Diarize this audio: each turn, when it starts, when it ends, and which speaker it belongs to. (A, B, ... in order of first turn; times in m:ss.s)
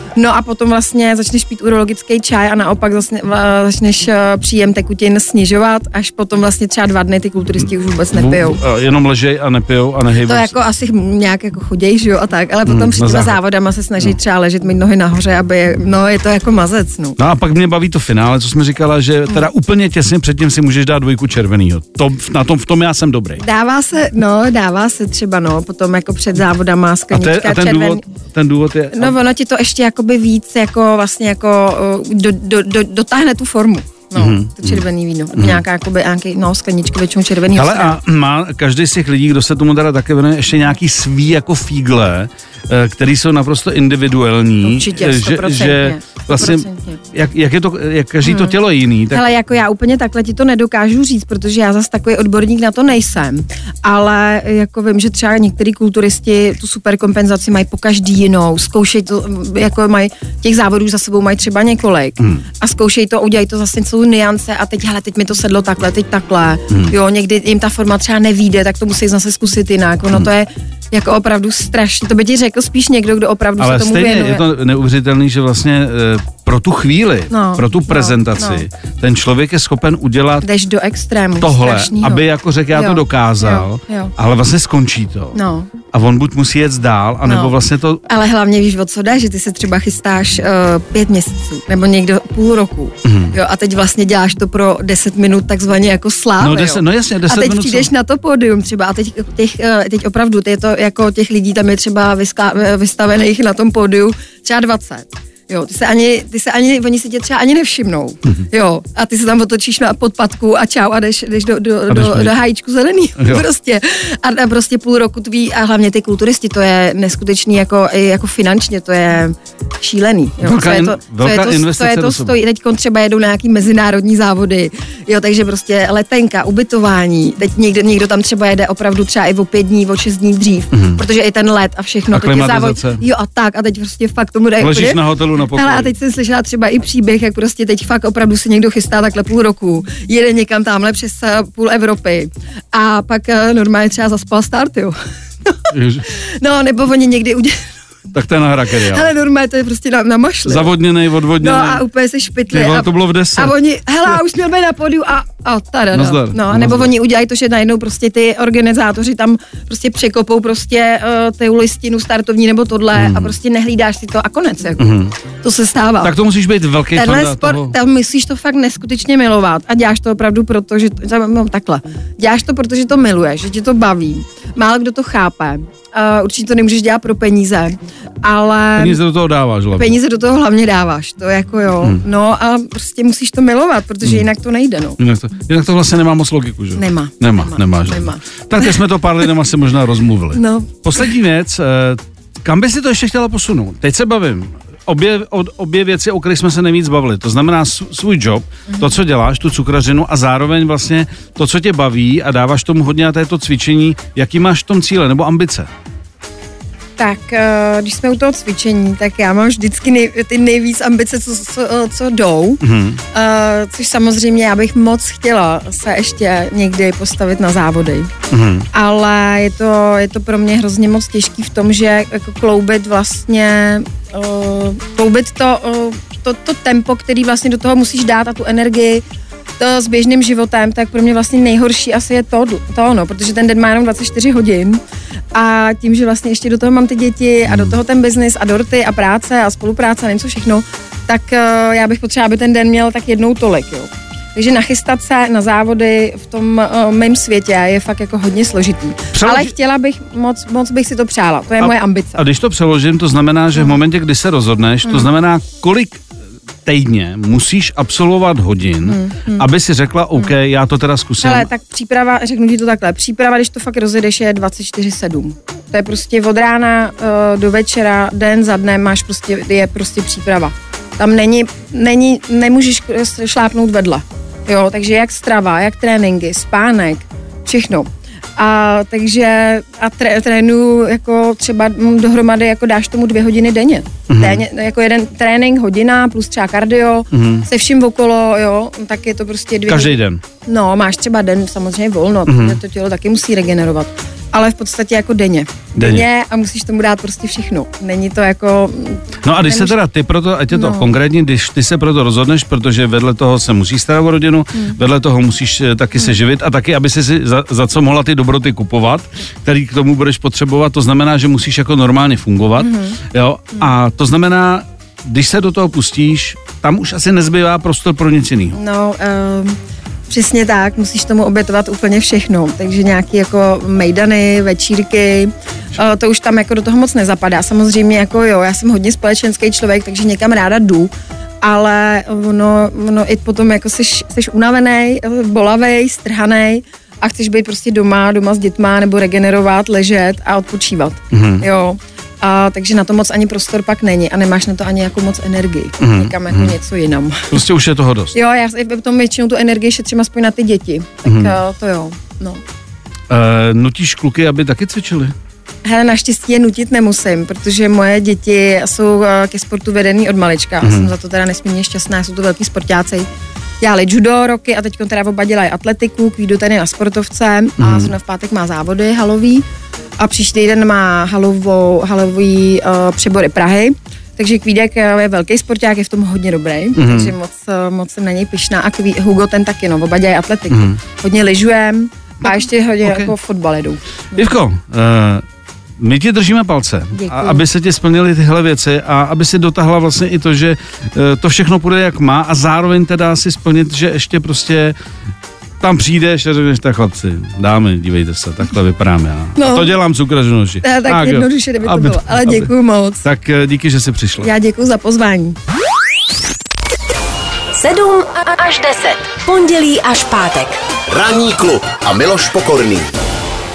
0:00.2-0:08.6 A
0:08.1-0:10.5 B
0:10.2-0:17.2 A
0:12.6-0:13.4 B
0:17.2-0:23.4 B
0:23.4-0:28.0 A
0:27.1-0:29.2 B
0:28.9-0:38.0 A
0:34.2-0:34.8 B
0:35.3-0:35.6 B
0:37.5-0:49.2 B
0:44.6-0:47.0 A
0:48.2-0:48.6 A
0:49.1-1:14.4 A
1:02.2-1:02.4 B
1:13.6-1:20.4 B
1:17.3-1:18.6 A
1:20.4-1:24.1 A
1:21.4-1:28.0 B
1:25.3-1:25.7 A
1:27.2-1:27.5 A
1:28.0-2:27.7 A
1:33.0-1:33.4 B
1:36.4-1:37.9 B
1:51.9-1:52.3 B
1:53.2-1:53.4 B
2:00.4-2:02.4 B
2:10.7-2:11.0 B
2:12.1-2:13.0 B
2:14.6-2:15.9 B
2:25.7-2:26.1 B
2:28.1-2:29.1 B
2:28.7-2:30.7 A
2:30.4-2:31.8 B
2:31.4-2:46.1 A
2:32.5-2:33.5 B
2:35.9-2:36.9 B
2:42.9-2:43.3 B
2:44.8-2:45.1 B
2:46.0-2:47.8 B
2:46.9-2:59.0 A
2:58.8-3:00.0 B
2:59.7-3:05.0 A
3:05.0-3:25.7 B
3:06.8-3:08.7 A
3:10.3-3:10.8 A
3:18.7-3:18.9 A
3:27.0-3:38.1 A
3:32.6-3:33.0 B
3:38.3-3:38.7 B
3:38.7-3:49.0 A
3:49.6-3:54.8 A
3:55.3-4:12.2 A
3:57.5-3:57.8 B
4:09.1-4:09.5 B
4:11.6-4:16.0 B
4:14.8-4:15.1 A
4:16.6-4:21.5 B
4:18.8-4:19.4 A
4:21.2-4:59.8 A
4:44.1-4:44.4 B
4:47.1-4:47.4 B
4:49.7-4:50.2 B
4:52.3-4:52.6 B
4:55.8-4:56.1 B
4:59.2-5:18.6 B
5:00.5-5:00.9 A
5:12.6-5:13.0 A
5:18.5-5:19.6 A
5:20.1-5:30.9 A
5:31.4-5:47.4 A
5:41.1-5:41.4 B
5:45.8-5:46.5 B
5:47.3-5:48.2 B
5:48.1-5:52.4 A
5:51.0-5:51.3 B
5:53.1-5:55.1 B
5:55.6-6:03.1 A
6:00.6-6:00.9 B
6:03.6-6:09.4 A
6:07.6-6:07.9 B
6:10.0-6:24.3 A
6:16.8-6:17.1 B
6:20.5-6:20.8 B
6:22.2-6:23.1 B
6:24.1-6:25.2 B
6:25.8-6:34.7 B
6:26.9-6:27.4 A
6:35.6-6:42.5 B
6:39.4-6:39.7 A
6:40.6-6:43.0 A
6:43.0-6:44.3 B
6:44.2-6:45.4 A
6:47.5-6:50.6 C
6:50.9-6:52.9 D